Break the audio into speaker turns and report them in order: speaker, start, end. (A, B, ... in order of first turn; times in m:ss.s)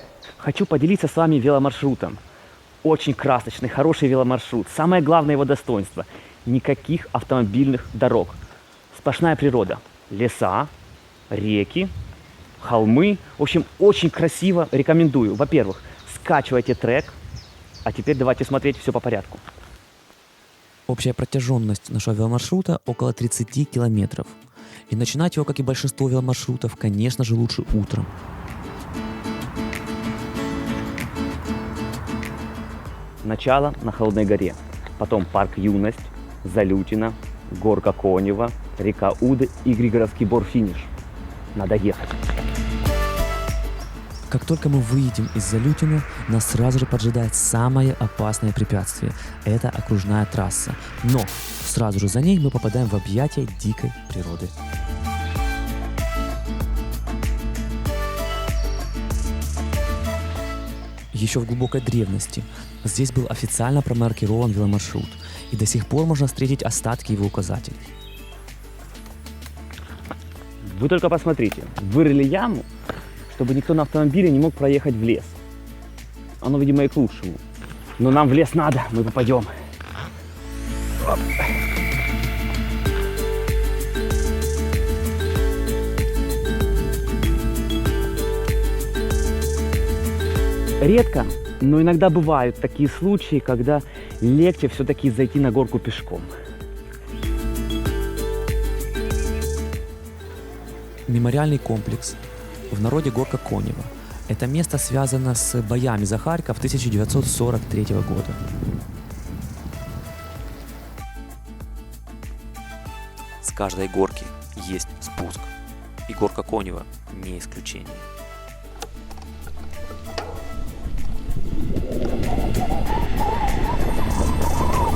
0:00.4-0:02.2 A
0:02.8-0:08.4 A
0:08.9-0:10.7 A
0:11.3-0:11.9 A
0:12.6-0:17.2 A
0:17.8-0:19.4 A
0:20.9-0:24.4 B
0:24.9-0:28.1 B
0:33.2-0:40.9 A
0:41.6-0:42.2 A
0:44.3-0:54.5 B
1:01.1-1:07.9 B
1:10.6-1:12.7 A
1:13.3-1:15.4 A
1:16.4-1:17.4 A
1:18.0-1:19.5 A
1:30.8-1:36.3 A
1:41.1-1:42.2 B
1:42.7-1:48.4 B
1:53.4-1:55.5 B
1:56.1-1:58.1 B